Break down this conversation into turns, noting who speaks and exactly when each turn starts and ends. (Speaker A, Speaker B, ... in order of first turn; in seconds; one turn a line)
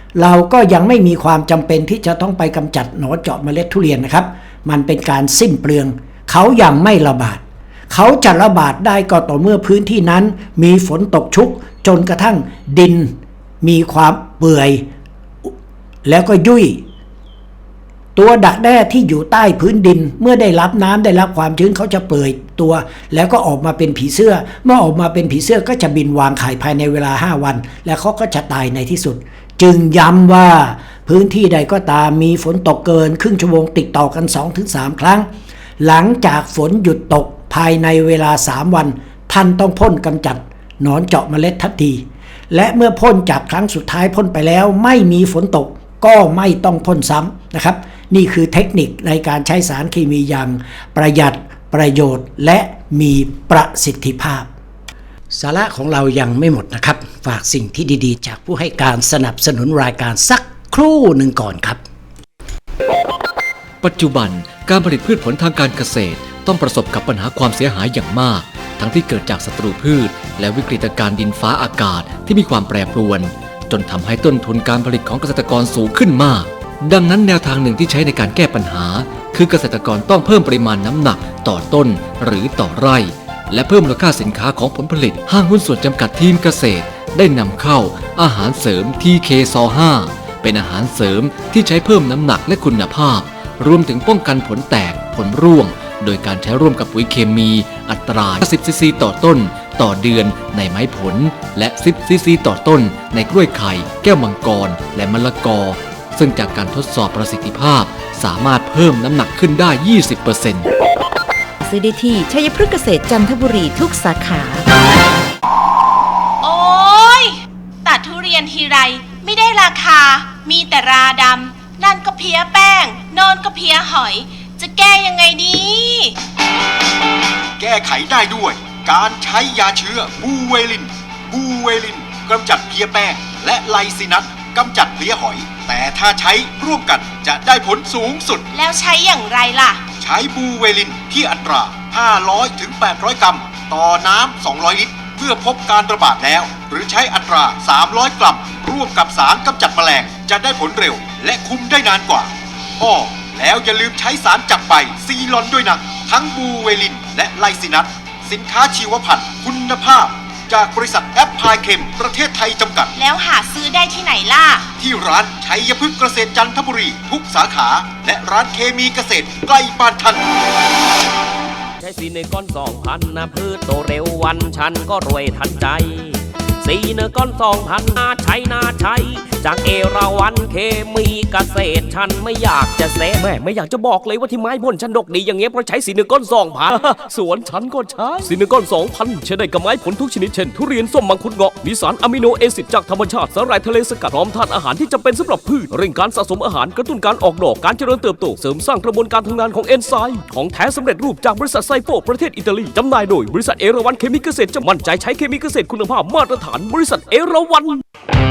Speaker A: 0.2-14.8
Speaker A: 16.1-16.8
Speaker A: 18.1-35.3
Speaker A: 35.8-54.5
Speaker A: 55.3-61.8
Speaker B: 63.8-110.7
Speaker C: 111.6-114.7
Speaker D: 116.4-126.1
Speaker E: 127.6-138.4
Speaker D: 138.5-139.8
Speaker E: 140.0-162.9
Speaker D: 162.9-164.7
Speaker E: 164.8-170.2
Speaker F: 171.8-207.8